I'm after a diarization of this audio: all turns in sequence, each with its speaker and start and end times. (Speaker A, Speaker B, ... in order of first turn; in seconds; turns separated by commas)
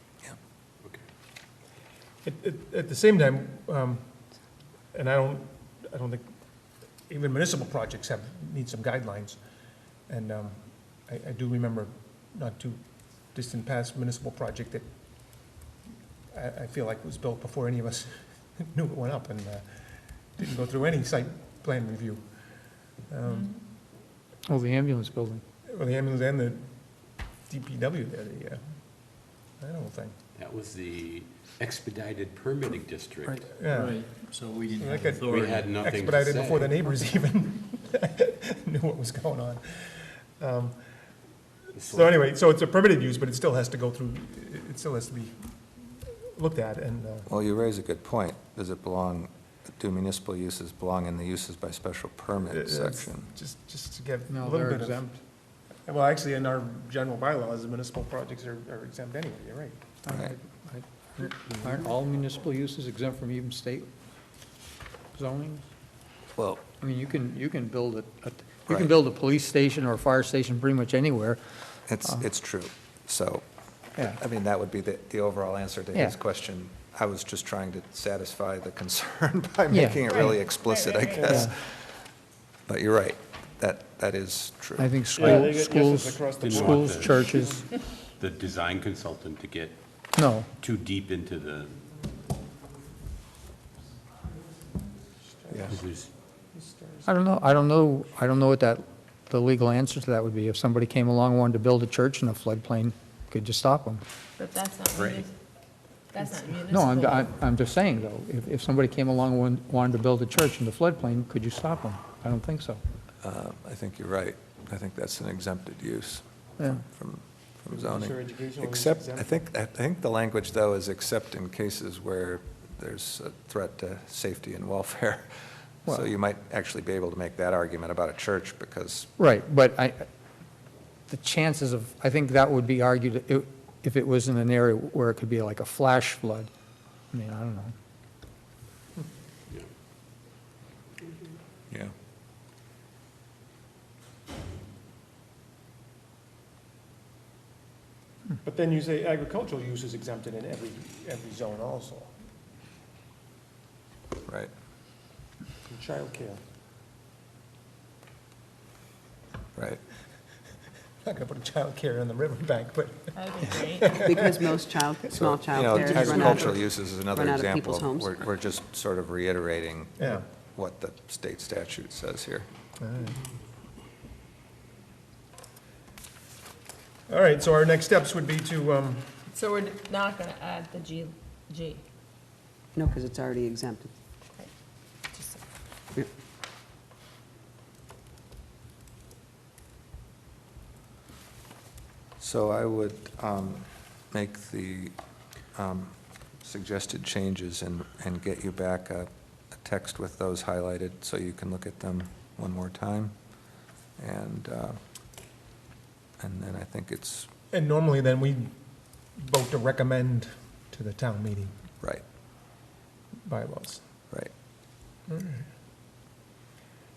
Speaker A: 2.2-4.0, Speaker A: 4.9-6.2, Speaker A: 7.1-9.4, Speaker A: 10.1-12.8, Speaker A: 13.3-14.8, Speaker A: 16.3-19.6, Speaker A: 20.4-22.2, Speaker A: 23.1-23.5, Speaker B: 23.3-23.6, Speaker C: 24.5-25.4, Speaker A: 25.7-26.6, Speaker A: 27.5-28.6, Speaker A: 29.6-30.1, Speaker D: 30.4-33.5, Speaker A: 33.5-34.1, Speaker E: 33.7-35.7, Speaker A: 34.8-40.8, Speaker D: 35.2-37.1, Speaker D: 41.7-42.2, Speaker A: 41.9-47.3, Speaker F: 47.3-53.3, Speaker A: 52.5-55.2, Speaker C: 54.3-55.1, Speaker A: 55.9-59.8, Speaker C: 60.0-63.9, Speaker F: 60.1-60.3, Speaker C: 65.1-65.7, Speaker F: 66.3-66.6, Speaker C: 66.7-71.4, Speaker F: 71.9-73.4, Speaker F: 74.0-82.0, Speaker C: 79.7-80.4, Speaker B: 80.0-81.4, Speaker C: 81.3-81.5, Speaker F: 82.7-85.5, Speaker C: 84.8-87.7, Speaker A: 85.2-87.5, Speaker D: 86.4-87.3, Speaker D: 88.2-89.8, Speaker C: 90.2-90.5, Speaker D: 90.5-91.8, Speaker A: 95.4-95.8, Speaker D: 95.7-96.1, Speaker A: 96.5-97.0, Speaker C: 97.0-104.0, Speaker B: 104.4-105.3, Speaker D: 104.9-105.2, Speaker B: 106.1-107.4, Speaker C: 106.7-112.8, Speaker F: 113.2-125.3, Speaker A: 117.7-119.3, Speaker F: 125.8-129.1, Speaker C: 129.2-130.1, Speaker C: 131.1-136.5, Speaker C: 137.1-137.7, Speaker A: 148.4-152.1, Speaker F: 154.2-154.5, Speaker A: 155.7-156.4, Speaker F: 159.6-159.8, Speaker A: 161.0-164.6, Speaker B: 163.1-164.0, Speaker G: 164.0-168.2, Speaker F: 165.1-172.5, Speaker A: 165.8-166.6, Speaker A: 172.8-173.2, Speaker A: 177.1-179.2, Speaker B: 179.3-181.8, Speaker G: 182.7-183.9, Speaker B: 185.1-185.4, Speaker F: 192.2-194.9, Speaker F: 195.5-203.1, Speaker F: 204.0-204.8, Speaker F: 206.2-207.3, Speaker A: 207.5-208.5, Speaker A: 209.2-211.5, Speaker A: 213.2-213.8, Speaker A: 215.1-215.5